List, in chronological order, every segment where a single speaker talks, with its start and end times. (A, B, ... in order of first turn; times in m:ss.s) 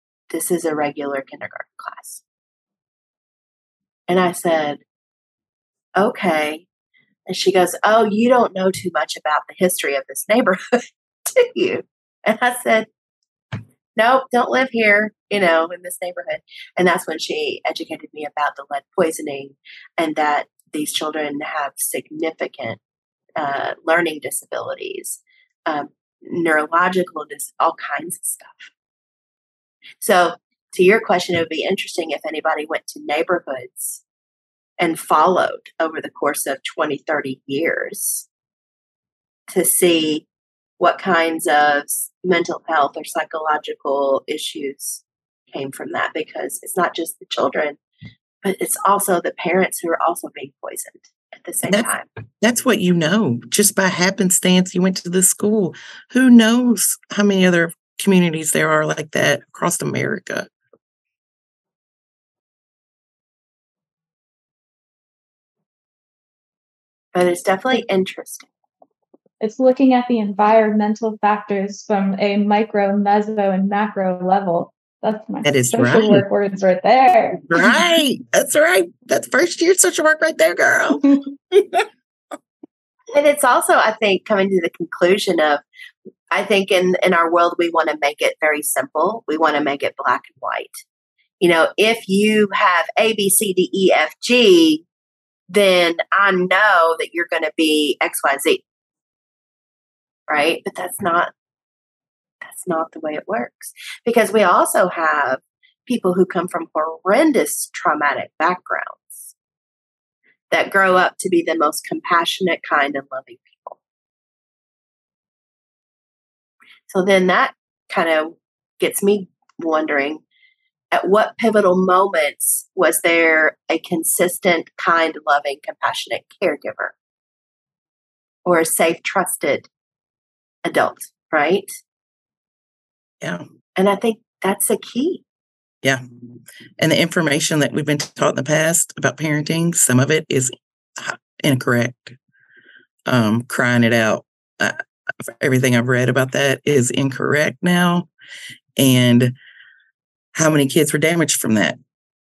0:00.3-0:02.2 A
0:04.1-0:04.8 A
0:06.0-0:06.6 A
0:07.3-0:10.6 A
0:11.3-0:12.9 A
0:14.0-0:22.8 A
0:23.4-0:28.7 A
0:30.0-0:34.0 A
0:34.8-0:38.2 A
0:39.5-0:40.3 A
0:40.8-0:47.8 A
0:48.4-0:52.1 A
0:51.7-1:00.5 B
1:07.1-1:08.5 A
1:09.4-1:17.8 C
1:15.4-1:16.2 B
1:17.5-1:21.8 B
1:23.1-1:25.6 A
1:26.3-1:30.8 A
1:31.4-1:34.8 A
1:35.5-1:38.6 A
1:40.3-1:41.3 A
1:42.4-1:49.3 A
1:50.5-1:53.8 A
1:56.9-2:00.2 A
2:00.9-2:06.9 A
2:08.4-2:09.7 A
2:10.6-2:11.8 A
2:13.8-2:15.2 A
2:16.8-2:22.2 B
2:23.0-2:24.8 B
2:25.4-2:28.1 B
2:28.8-2:29.3 B
2:30.3-2:31.8 B